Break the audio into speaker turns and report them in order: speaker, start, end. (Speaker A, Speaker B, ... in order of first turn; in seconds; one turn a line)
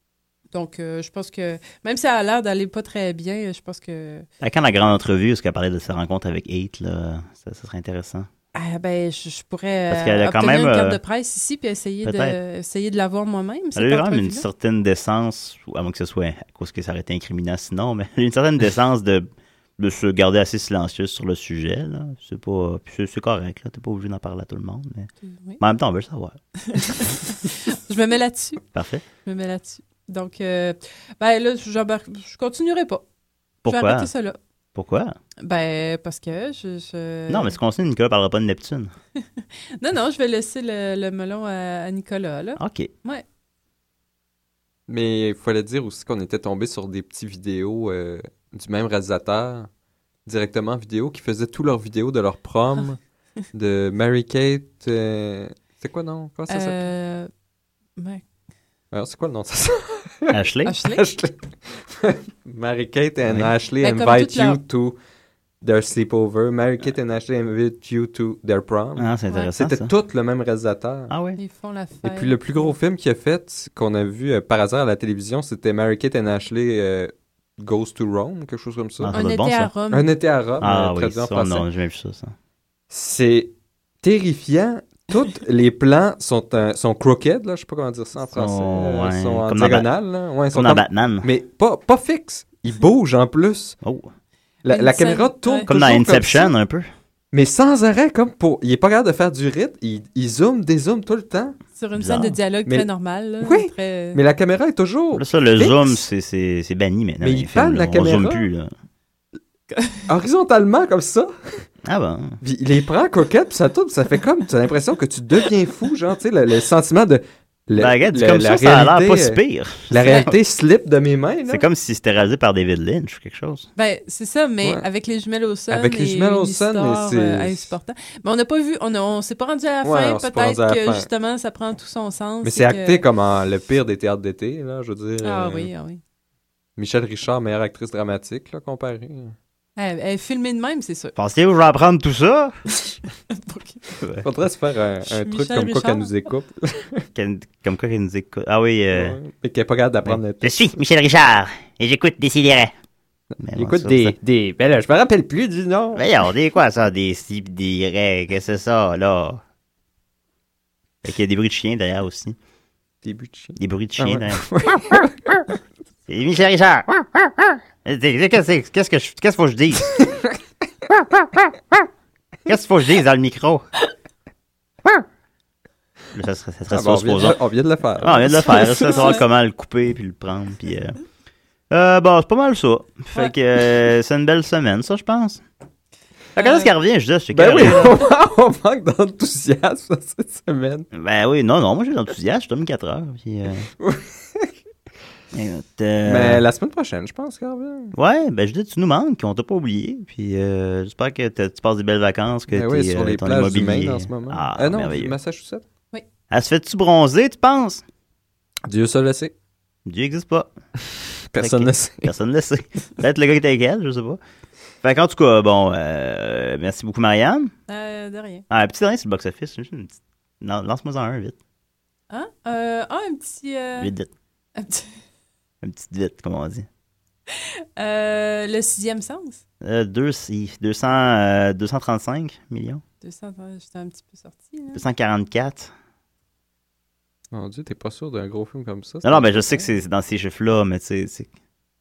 Speaker A: 0.5-4.2
Speaker B: 4.4-8.3
Speaker A: 8.5-14.4
Speaker B: 9.9-11.0
Speaker B: 12.0-12.3
Speaker B: 13.7-25.1
Speaker A: 25.3-25.6
Speaker B: 25.6-26.4
Speaker A: 26.6-28.6
Speaker B: 28.7-29.0
Speaker A: 29.1-33.0
Speaker B: 33.6-34.1
Speaker A: 33.6-34.4
Speaker B: 34.7-35.1
Speaker A: 35.4-37.6
Speaker B: 37.3-38.9
Speaker A: 39.2-43.2
Speaker B: 42.6-42.9
Speaker C: 44.9-49.7
Speaker C: 50.2-53.0
Speaker C: 53.5-56.9
Speaker A: 56.5-57.3
Speaker A: 58.0-58.2
Speaker C: 58.9-60.4
Speaker B: 60.3-60.7
Speaker A: 60.6-61.0
Speaker C: 60.9-65.0
Speaker B: 63.2-63.5
Speaker A: 63.8-64.6
Speaker C: 65.6-71.1
Speaker B: 69.0-69.9
Speaker B: 71.1-71.4
Speaker A: 71.3-72.7
Speaker C: 72.0-79.1
Speaker B: 79.0-79.7
Speaker A: 79.1-80.1
Speaker C: 79.9-81.7
Speaker B: 80.6-82.3
Speaker C: 82.9-93.8
Speaker B: 88.3-89.9
Speaker B: 90.5-91.3
Speaker B: 93.8-94.1
Speaker C: 94.6-96.5
Speaker A: 94.7-96.0
Speaker B: 95.7-96.9
Speaker C: 97.3-101.6
Speaker A: 101.8-104.2
Speaker B: 102.0-102.4
Speaker C: 103.4-106.0
Speaker B: 105.1-108.7
Speaker C: 107.2-108.5
Speaker A: 109.7-110.0
Speaker C: 110.1-111.7
Speaker B: 111.8-112.4
Speaker C: 112.4-121.6
Speaker B: 117.8-120.3
Speaker A: 120.1-120.3
Speaker B: 121.5-123.7
Speaker A: 123.8-133.0
Speaker C: 125.7-127.7
Speaker C: 129.8-131.1
Speaker C: 132.4-135.7
Speaker A: 135.2-136.0
Speaker C: 136.8-139.3
Speaker A: 139.8-141.1
Speaker B: 141.2-142.6
Speaker A: 143.3-143.8
Speaker C: 144.2-147.1
Speaker A: 145.1-146.1
Speaker B: 147.1-149.2
Speaker C: 148.9-150.8
Speaker B: 150.0-152.7
Speaker C: 153.3-156.1
Speaker B: 153.4-154.2
Speaker B: 155.9-159.4
Speaker B: 161.0-162.4
Speaker C: 163.0-165.6
Speaker B: 163.6-165.0
Speaker B: 166.1-170.0
Speaker B: 171.1-171.4
Speaker B: 172.4-173.7
Speaker B: 176.1-177.4
Speaker C: 176.7-179.1
Speaker B: 178.0-181.0
Speaker A: 178.6-179.2
Speaker B: 181.7-185.4
Speaker B: 186.3-187.9
Speaker A: 186.4-186.7
Speaker C: 187.3-190.9
Speaker B: 190.9-193.7
Speaker C: 193.8-194.5
Speaker B: 195.3-196.4
Speaker C: 196.0-197.9
Speaker B: 197.9-205.2
Speaker C: 202.5-205.6
Speaker B: 206.3-207.8
Speaker C: 208.7-209.3
Speaker B: 209.8-210.5
Speaker C: 211.3-212.1
Speaker B: 211.4-214.2
Speaker B: 214.8-217.5
Speaker A: 217.7-218.4
Speaker B: 218.5-221.4
Speaker A: 222.1-223.9
Speaker B: 223.8-224.1
Speaker A: 224.6-224.9
Speaker B: 225.6-226.7
Speaker A: 227.3-229.4
Speaker B: 229.6-232.8
Speaker A: 233.0-234.8
Speaker B: 234.7-235.7
Speaker C: 237.3-239.7
Speaker B: 239.0-241.3